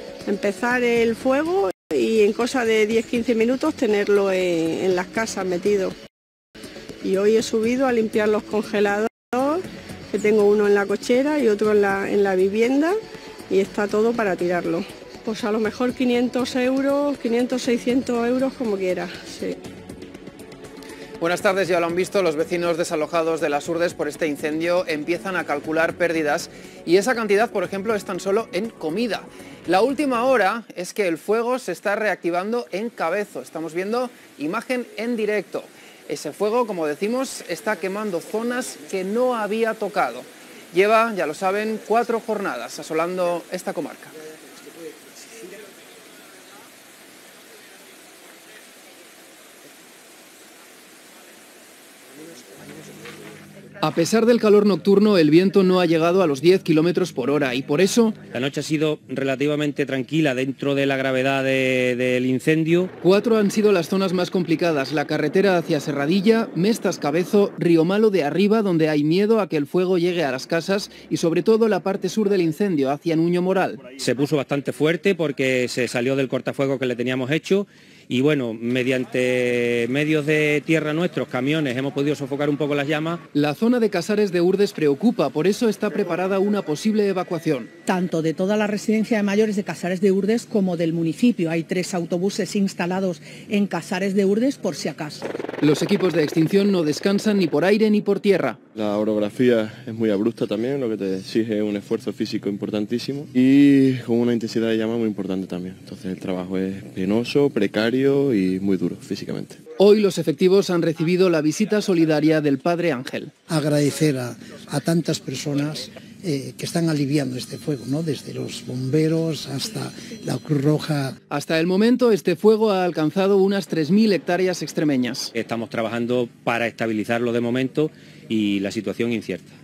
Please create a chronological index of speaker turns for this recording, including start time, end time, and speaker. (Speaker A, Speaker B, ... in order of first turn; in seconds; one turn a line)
Speaker A: 0.3-5.9
Speaker A: 7.0-12.9
Speaker A: 13.5-19.6
Speaker B: 21.2-44.1
Speaker B: 53.8-58.2
Speaker C: 58.3-62.9
Speaker B: 63.0-73.8
Speaker C: 74.0-83.2
Speaker B: 83.3-87.7
Speaker D: 87.9-95.3
Speaker B: 95.6-98.6
Speaker E: 98.8-109.6
Speaker B: 109.8-113.3
Speaker F: 113.5-121.2
Speaker B: 121.3-125.3
Speaker C: 125.3-129.5